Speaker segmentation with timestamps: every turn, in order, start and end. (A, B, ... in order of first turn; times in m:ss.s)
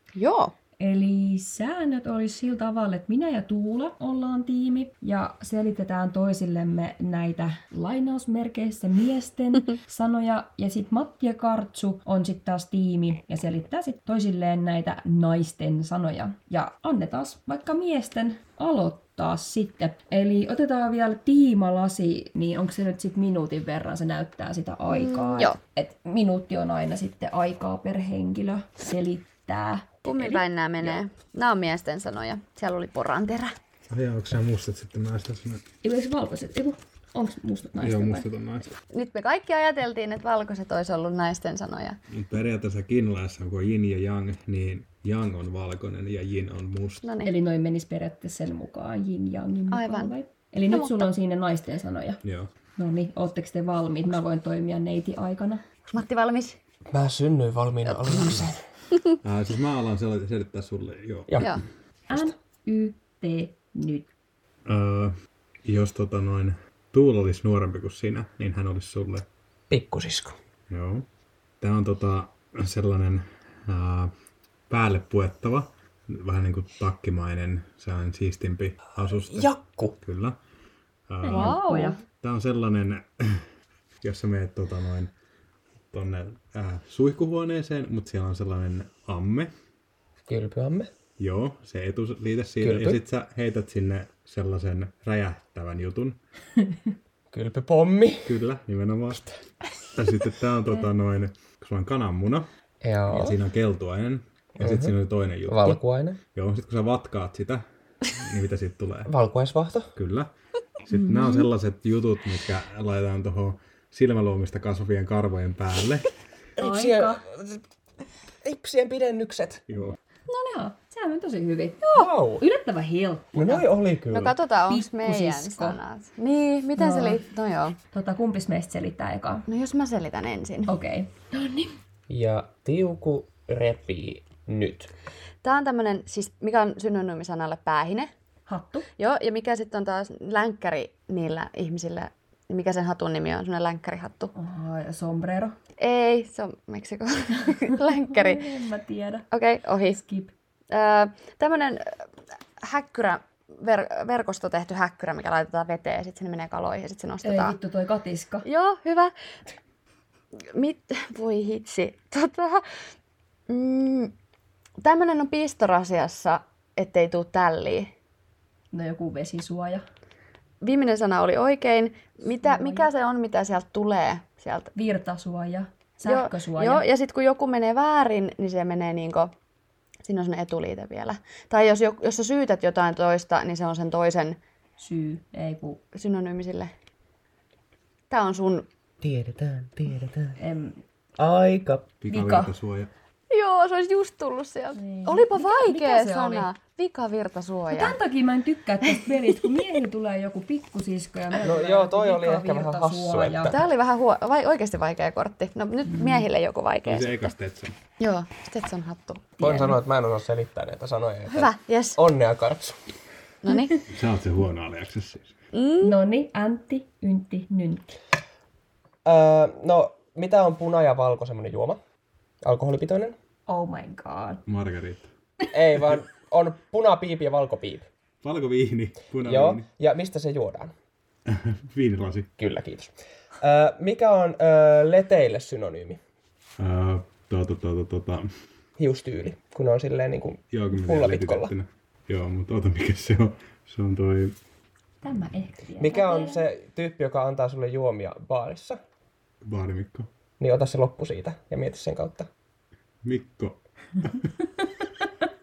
0:00.2-0:00.5 A
0:00.8-0:31.0 B
0:24.9-0:25.6 A
0:30.1-0:33.6 A
0:33.9-0:35.6 C
0:35.8-0:38.3 B
0:37.8-0:38.7 C
0:38.9-0:42.0 A
0:42.1-0:47.1 C
0:47.0-0:47.3 A
0:47.2-0:52.2 B
0:49.7-0:50.1 A
0:50.7-0:51.1 A
0:52.2-0:52.5 C
0:52.8-0:55.6 B
0:55.9-0:56.6 A
0:56.9-0:58.6 D
0:57.9-0:58.5 A
0:59.2-1:01.6 C
1:01.3-1:01.6 D
1:02.1-1:04.1 B
1:04.7-1:05.1 C
1:05.6-1:09.3 C
1:09.7-1:10.4 D
1:10.7-1:11.1 C
1:11.6-1:14.1 C
1:14.7-1:20.4 C
1:19.3-1:20.0 D
1:21.1-1:21.6 C
1:21.2-1:22.0 B
1:21.3-1:22.0 A
1:22.2-1:23.5 C
1:24.0-1:25.1 C
1:25.9-1:29.5 C
1:30.3-1:30.9 D
1:31.2-1:36.2 C
1:32.6-1:33.0 D
1:37.3-1:38.4 D
1:38.2-1:39.3 C
1:39.9-1:42.5 C
1:42.8-1:43.4 D
1:43.1-1:49.1 C
1:44.6-1:44.9 D
1:45.5-1:46.2 D
1:49.1-1:49.9 D
1:50.0-1:50.3 C
1:50.8-1:56.1 C
1:50.9-1:51.5 B
1:56.6-1:57.6 D
1:56.6-1:57.2 B
1:58.4-1:59.7 D
1:59.7-2:00.0 C
2:00.3-2:03.7 B
2:01.9-2:02.4 D
2:03.4-2:04.4 D
2:04.1-2:07.8 A
2:04.7-2:05.8 B
2:06.8-2:07.2 B
2:07.9-2:09.5 B
2:09.5-2:10.7 A
2:10.7-2:11.8 B
2:12.1-2:14.9 D
2:15.4-2:18.1 A
2:18.5-2:18.9 B
2:19.0-2:24.3 A
2:24.4-2:25.6 B
2:25.8-2:28.5 A
2:27.5-2:29.3 B
2:29.3-2:30.0 A
2:30.0-2:30.3 B
2:30.7-2:32.1 A
2:32.6-2:37.6 A
2:37.2-2:38.5 B
2:38.4-2:39.1 A
2:40.5-2:42.6 A
2:43.5-2:44.1 A
2:44.8-2:47.9 A
2:48.7-2:49.8 B
2:50.6-2:54.7 A
2:52.4-2:52.9 B
2:54.8-2:56.8 B
2:56.0-2:59.3 A
3:00.0-3:04.4 A
3:04.8-3:05.8 B
3:05.9-3:06.7 A
3:08.1-3:08.7 A
3:09.0-3:10.4 D
3:10.4-3:10.8 B
3:11.2-3:11.9 D
3:12.0-3:12.9 C
3:12.1-3:12.5 B
3:13.3-3:18.0 A
3:14.8-3:16.5 B
3:17.7-3:23.5 B
3:18.8-3:19.4 A
3:21.4-3:23.5 D
3:23.5-3:27.3 A
3:25.9-3:26.3 B
3:26.8-3:27.8 C
3:28.0-3:29.4 A
3:29.4-3:32.8 D
3:29.4-3:29.7 B
3:31.3-3:32.0 A
3:33.4-3:33.8 A
3:33.5-3:33.8 B
3:33.9-3:35.4 C
3:35.5-3:36.0 A
3:35.8-3:37.9 B
3:39.0-3:41.8 D
3:42.4-3:43.2 D
3:43.5-3:44.4 B
3:44.5-3:45.1 C
3:45.5-3:47.9 D
3:48.2-3:49.7 C
3:49.2-3:50.7 D
3:51.3-3:52.3 C
3:52.4-3:56.0 D
3:56.6-3:58.3 C
3:58.8-4:01.5 D
4:00.5-4:04.4 C
4:05.0-4:06.4 B
4:05.8-4:08.8 D
4:09.4-4:10.1 C
4:10.4-4:12.3 D
4:13.0-4:14.3 C